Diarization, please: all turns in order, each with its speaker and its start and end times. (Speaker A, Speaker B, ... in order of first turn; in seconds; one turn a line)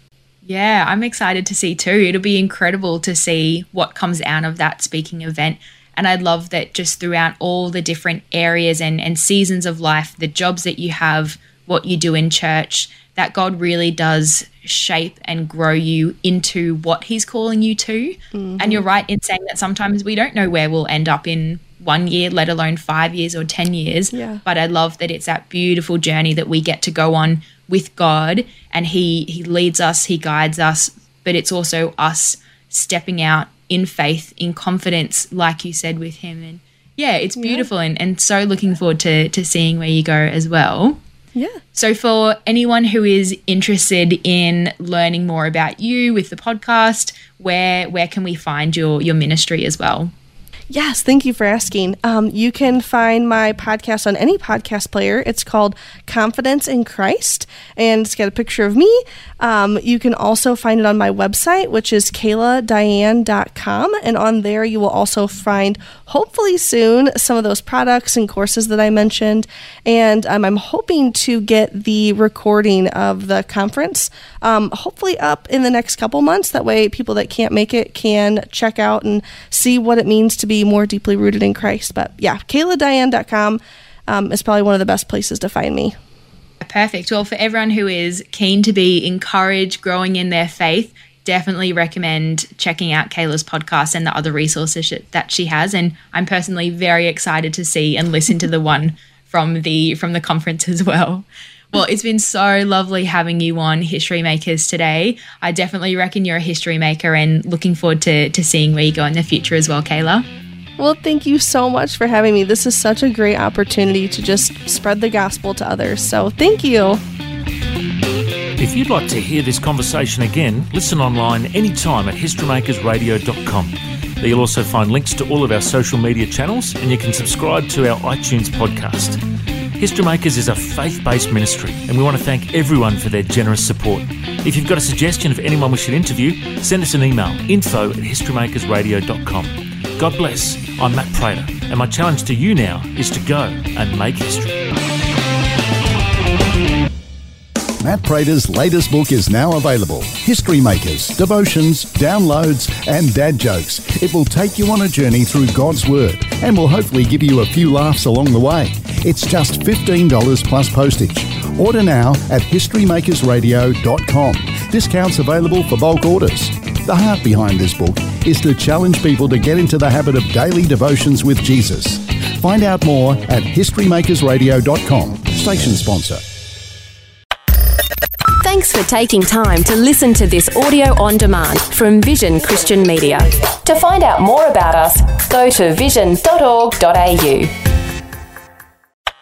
Speaker A: 0.4-41.0
Speaker B: 18.3-18.8
Speaker B: 24.1-24.4
Speaker B: 37.4-37.7
Speaker A: 41.7-50.1
Speaker B: 50.7-85.9
Speaker A: 86.6-110.3
Speaker B: 110.8-117.0
Speaker C: 118.6-129.2
Speaker C: 129.8-144.6
Speaker D: 147.8-176.2
Speaker E: 178.4-187.5